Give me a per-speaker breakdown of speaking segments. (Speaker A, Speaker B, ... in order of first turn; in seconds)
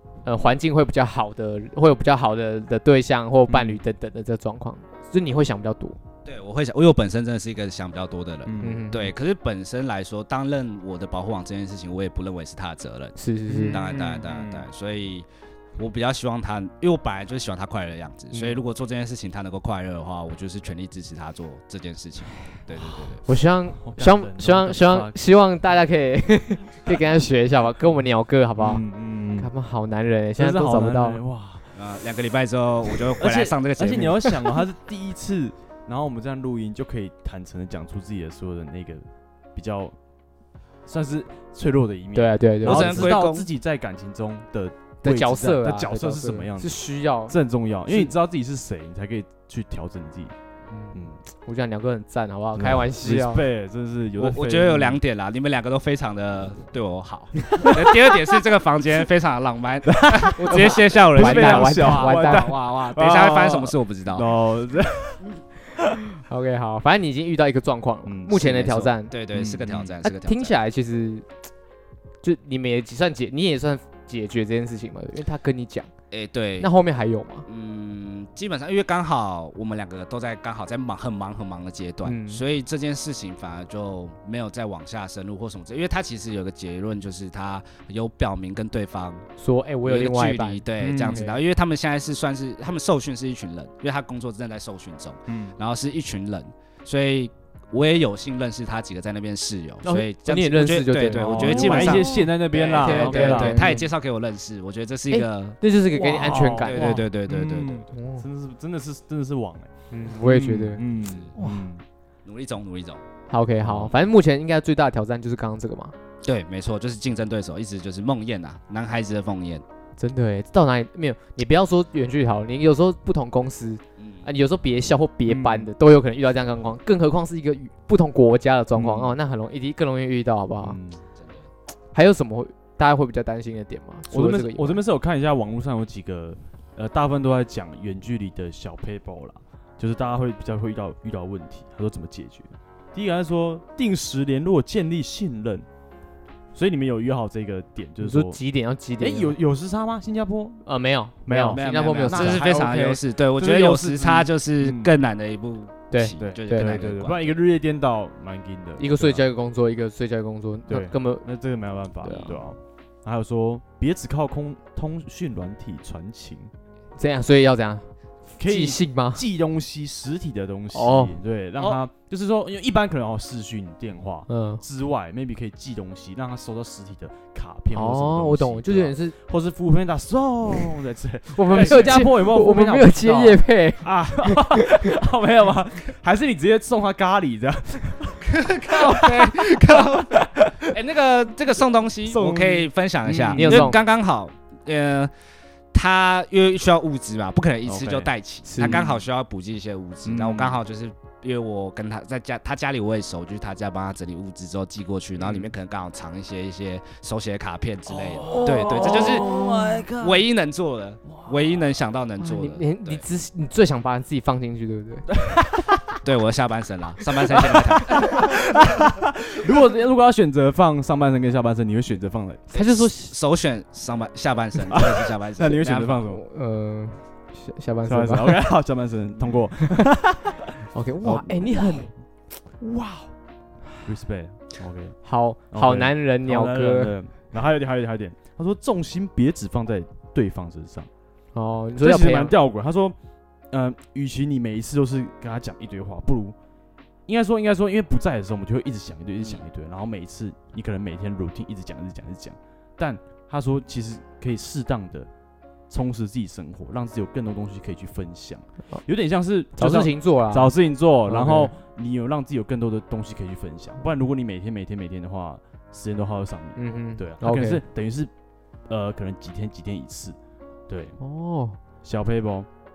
Speaker A: 0.2-6.0, 8.6-9.1, 13.2-14.2, 18.3-18.6, 23.2-28.8, 29.4-31.2, 42.1-43.1, 45.0-47.3, 47.9-48.1, 50.7-53.4, 60.4-62.5, 66.2-69.1, 70.0-71.2, 72.2-75.9, 76.6-77.5, 82.0-82.4, 89.4-91.4, 99.8-103.9, 105.1-107.1, 107.9-108.2, 109.9-110.8, 111.3-111.7, 113.3-115.9, 120.0-130.8, 131.9-134.8, 148.0-149.3, 150.6-153.0, 155.9-156.8, 158.8-161.2, 162.0-162.4, 167.0-169.2, 170.7-171.2, 174.3-174.6, 177.7-179.2, 181.3-184.9, 193.3-193.8, 198.4-198.8, 208.7-209.7, 212.2-215.1, 222.5-223.1, 226.1-228.4, 230.7-231.9, 235.0-236.9, 241.3-242.3, 259.6-260.5, 261.0-261.5, 266.6-267.6, 271.0-271.6
Speaker B: 3.5-3.8, 8.4-8.8, 13.5-14.7, 23.8-25.2, 28.6-29.5, 30.4-31.7, 33.2-40.0, 40.9-50.3, 52.5-55.0, 57.6-57.9, 59.9-65.2, 68.0-69.9, 90.8-91.2, 95.3-95.5, 101.2-103.8, 105.9-111.8, 113.6-113.9, 125.2-125.7, 128.7-129.2, 130.6-131.0, 134.1-145.7, 146.5-148.4, 149.0-150.6, 151.2-152.7, 153.3-154.9, 156.2-159.2, 160.7-166.5, 168.4-190.8, 192.1-193.8, 197.6-199.0, 200.1-200.6, 205.2-205.5, 207.8-210.2, 211.1-211.6, 215.1-215.8, 217.3-222.4, 224.6-226.2, 227.8-230.4, 231.0-231.9, 232.6-233.1, 233.8-240.9, 241.8-242.9, 243.5-246.3, 247.1-255.1, 255.7-268.1, 268.7-270.2, 270.7-270.9, 271.8-272.5
Speaker C: 6.2-15.2, 15.8-23.2, 31.7-34.3, 42.6-43.5, 54.2-64.3, 69.1-70.5, 76.1-76.7, 77.5-89.3, 89.8-105.6, 106.6-107.9, 111.0-111.3, 112.2-113.0, 116.2-119.6, 124.0-124.3, 131.2-131.5, 151.5-157.3, 188.2-195.1, 195.7-209.4, 209.9-213.0, 216.0-218.3, 222.5-226.1, 249.2-249.4